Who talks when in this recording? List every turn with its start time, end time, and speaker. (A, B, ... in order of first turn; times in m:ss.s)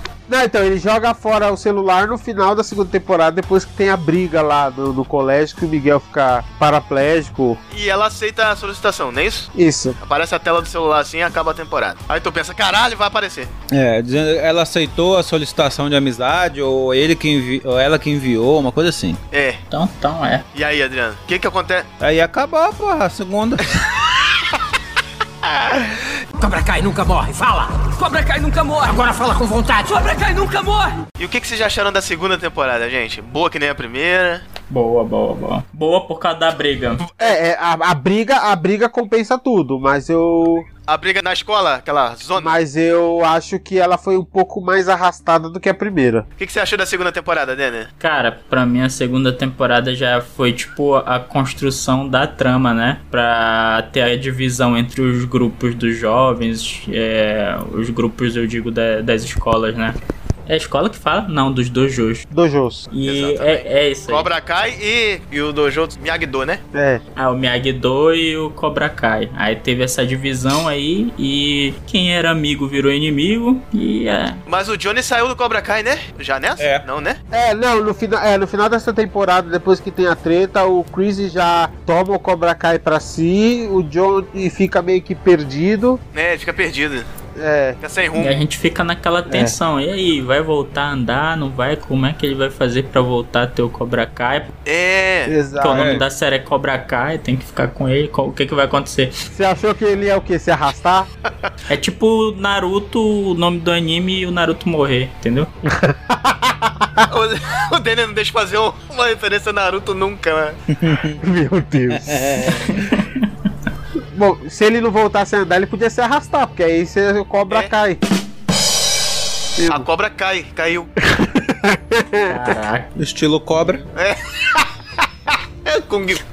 0:00.3-0:07.6 A
0:07.7-0:13.5 B
0:09.6-0:10.0 A
0:13.7-0:19.2 C
0:19.3-0:19.6 B
0:19.7-0:20.4 D
0:20.5-0:21.9 B
0:22.0-0:23.8 C
0:25.4-0:26.1 B
0:26.4-0:31.0 E
0:31.2-0:34.4 B
0:34.7-0:37.0 D
0:37.0-0:37.4 B
0:37.2-0:40.7 A
0:40.9-0:42.6 B
0:42.4-0:46.3 A
0:46.4-0:47.9 B
0:48.0-1:02.3 D
1:02.3-1:02.9 A
1:02.9-1:04.3 D
1:03.0-1:06.6 B
1:06.7-1:07.0 A
1:07.2-1:14.4 D
1:14.5-1:17.2 B
1:16.6-1:16.8 C
1:17.3-1:26.0 A
1:26.1-1:27.1 B
1:27.4-1:27.8 A
1:27.8-1:28.4 B
1:28.2-1:34.5 D
1:29.3-1:29.6 A
1:34.7-1:35.4 B
1:35.3-1:36.0 A
1:35.6-1:39.1 D
1:35.7-1:36.0 C
1:39.3-1:41.1 A
1:41.7-1:45.5 D
1:45.7-1:47.1 A
1:47.1-1:50.6 B
1:50.7-1:51.2 C
1:51.2-1:52.7 A
1:51.9-1:52.7 C
1:52.7-1:53.2 D
1:54.1-1:58.0 A
1:59.6-1:59.9 A
1:59.7-2:00.9 B
2:01.1-2:02.5 A
2:02.3-2:02.9 D
2:03.0-2:03.8 C
2:04.0-2:04.7 B
2:05.6-2:06.2 B